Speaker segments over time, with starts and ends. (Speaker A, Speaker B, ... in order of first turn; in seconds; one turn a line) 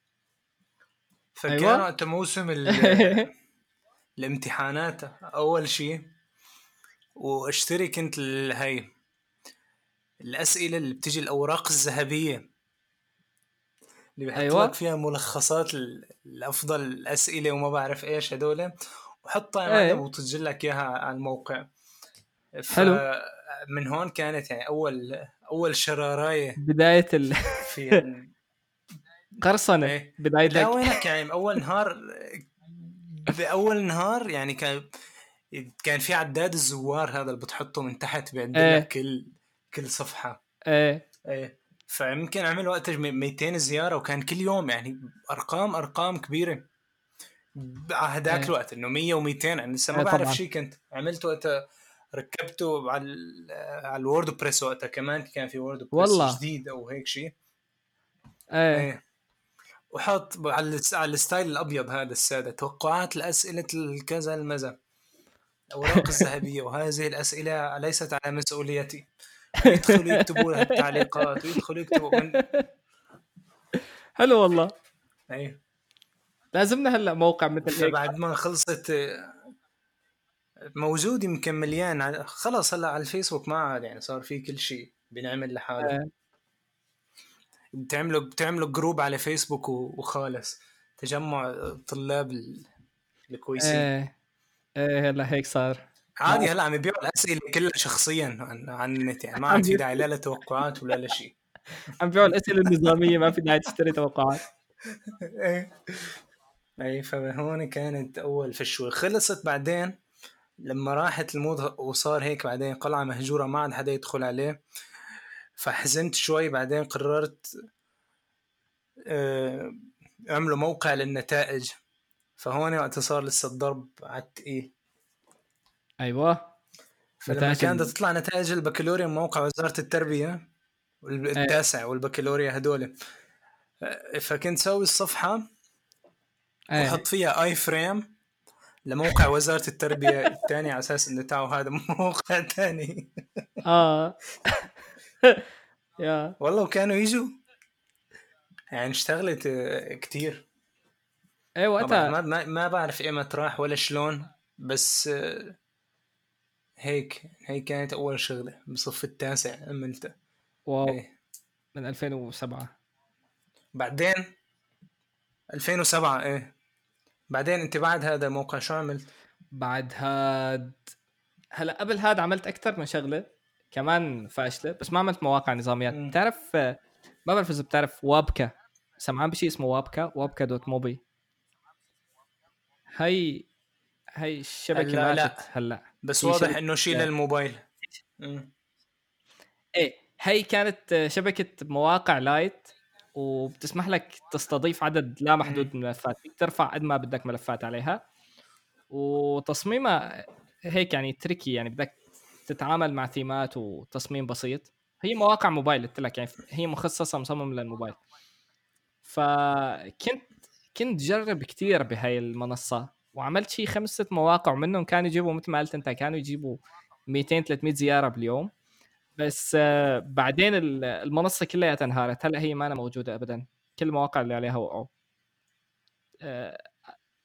Speaker A: 1.4-3.3
Speaker B: 1.5-1.9
Speaker B: 2.7-3.3
Speaker A: 4.2-6.1
Speaker A: 7.2-8.9
Speaker A: 10.2-12.4
Speaker A: 14.2-21.6
Speaker B: 14.3-14.7
Speaker B: 19.7-20.0
Speaker A: 22.6-26.6
Speaker B: 22.7-23.0
Speaker B: 26.6-28.0
Speaker A: 27.6-28.3
Speaker B: 29.4-31.0
Speaker A: 29.8-34.9
Speaker A: 35.5-40.4
Speaker B: 38.5-38.9
Speaker B: 40.7-41.0
Speaker A: 41.3-46.7
Speaker A: 47.6-51.6
Speaker B: 49.9-50.4
Speaker A: 52.1-57.3
Speaker B: 55.9-56.4
Speaker B: 58.5-58.9
Speaker A: 58.7-59.0
Speaker A: 59.9-64.8
Speaker A: 65.7-72.4
Speaker B: 65.9-66.2
Speaker B: 69.6-72.7
Speaker B: 74.2-74.7
Speaker A: 75.3-75.6
Speaker B: 76.5-78.1
Speaker A: 77.7-79.4
Speaker A: 80.8-85.9
Speaker B: 85.8-86.1
Speaker A: 87.8-92.7
Speaker A: 93.3-93.9
Speaker B: 93.6-94.1
Speaker B: 94.8-96.5
Speaker A: 96.2-101.3
Speaker B: 99.4-100.0
Speaker B: 102.0-104.4
Speaker A: 102.8-103.1
Speaker A: 104.9-106.2
Speaker A: 106.8-109.9
Speaker A: 110.6-114.6
Speaker A: 115.6-117.5
Speaker A: 119.1-119.8
Speaker A: 120.3-121.8
Speaker A: 122.4-124.7
Speaker B: 126.0-126.5
Speaker A: 127.2-130.5
Speaker B: 127.3-127.9
Speaker A: 131.0-132.9
Speaker B: 131.4-131.6
Speaker A: 133.8-135.5
Speaker B: 136.7-137.0
Speaker A: 136.8-138.1
Speaker A: 138.9-143.4
Speaker B: 140.0-140.4
Speaker B: 143.6-144.7
Speaker B: 146.0-146.3
Speaker A: 146.4-147.3
Speaker A: 148.7-150.5
Speaker B: 151.6-152.1
Speaker A: 151.8-155.6
Speaker A: 156.8-160.1
Speaker B: 160.7-161.0
Speaker B: 161.8-162.7
Speaker A: 163.8-164.2
Speaker A: 165.5-166.5
Speaker A: 167.3-169.1
Speaker B: 169.6-170.8
Speaker B: 171.6-181.0
Speaker A: 175.9-176.2
Speaker B: 183.0-183.5
Speaker B: 184.2-187.1
Speaker A: 184.7-185.5
Speaker A: 186.0-187.6
Speaker A: 188.2-188.5
Speaker B: 189.8-198.0
Speaker A: 195.4-195.7
Speaker B: 198.9-208.0
Speaker B: 209.1-218.5
Speaker B: 219.2-224.9
Speaker B: 226.2-226.7